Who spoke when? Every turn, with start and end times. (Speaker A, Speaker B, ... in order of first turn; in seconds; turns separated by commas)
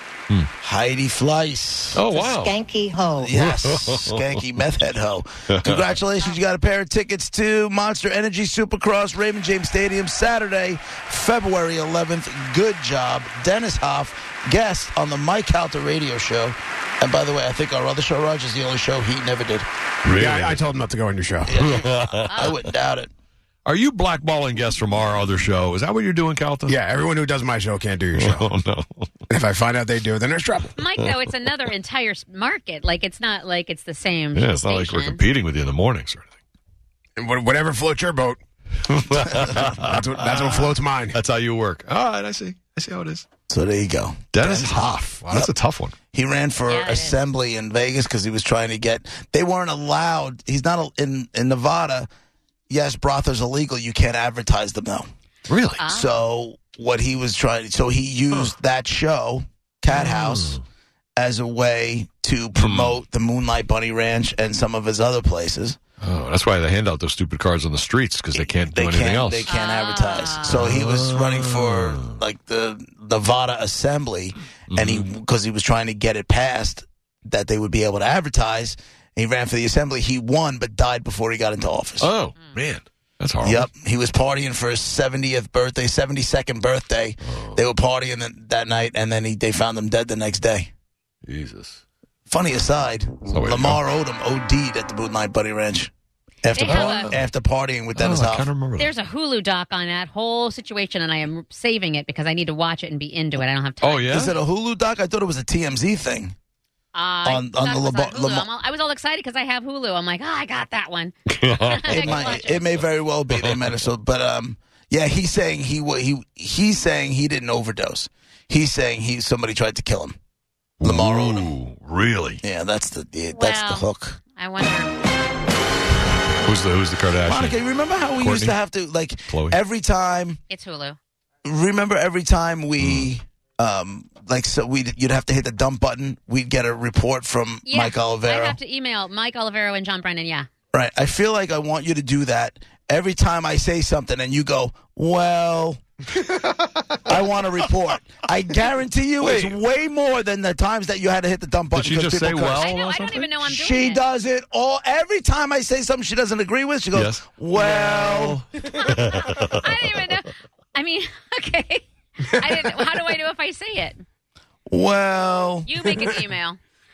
Speaker A: 0.6-2.1, Speaker B: 1.9-2.6, Speaker C: 2.1-3.4, Speaker A: 3.2-19.7, Speaker B: 3.4-4.2, Speaker B: 5.5-5.8, Speaker B: 20.0-20.6, Speaker C: 20.2-21.5, Speaker A: 21.5-23.1, Speaker B: 21.6-22.5, Speaker D: 22.3-22.6, Speaker B: 23.6-26.8, Speaker C: 26.7-28.5, Speaker B: 28.1-29.1, Speaker C: 29.3-30.7, Speaker D: 30.8-35.2, Speaker B: 34.3-36.4, Speaker C: 37.2-38.4, Speaker B: 38.9-43.3, Speaker C: 39.9-41.1, Speaker A: 43.5-45.5, Speaker B: 44.3-46.0, Speaker A: 46.1-52.1, Speaker D: 46.7-47.2, Speaker A: 52.7-55.1, Speaker B: 55.5-55.8, Speaker D: 55.8-56.2, Speaker A: 55.9-60.6, Speaker B: 59.9-60.6, Speaker A: 61.2-65.8, Speaker B: 62.6-63.0, Speaker B: 66.0-69.5, Speaker A: 68.3-82.1, Speaker D: 69.5-70.7, Speaker B: 70.5-72.1, Speaker B: 74.7-75.0, Speaker B: 82.0-83.7, Speaker A: 83.4-90.7, Speaker B: 87.3-87.6, Speaker B: 91.3-91.8, Speaker A: 92.3-95.9, Speaker B: 93.3-93.8, Speaker A: 96.4-98.5, Speaker D: 96.6-97.2, Speaker B: 96.6-97.2, Speaker B: 98.0-98.9, Speaker D: 98.8-104.3, Speaker B: 103.8-104.3, Speaker A: 104.1-106.3, Speaker D: 106.9-112.8, Speaker A: 107.2-108.5, Speaker B: 111.3-112.0, Speaker A: 111.9-120.2, Speaker B: 120.8-122.4, Speaker A: 120.8-121.5, Speaker A: 122.4-124.2, Speaker D: 123.3-125.0, Speaker B: 126.5-127.6, Speaker A: 127.2-130.4, Speaker B: 128.1-128.6, Speaker B: 129.3-129.6, Speaker D: 130.5-131.0, Speaker A: 131.4-138.6, Speaker B: 132.8-133.1, Speaker D: 137.7-140.5, Speaker A: 140.7-145.8, Speaker A: 147.0-152.7, Speaker B: 149.2-149.6, Speaker B: 151.7-153.3, Speaker D: 152.5-154.1, Speaker A: 153.4-158.4, Speaker B: 156.9-159.7, Speaker D: 158.7-164.0, Speaker A: 164.7-165.8, Speaker D: 165.7-166.6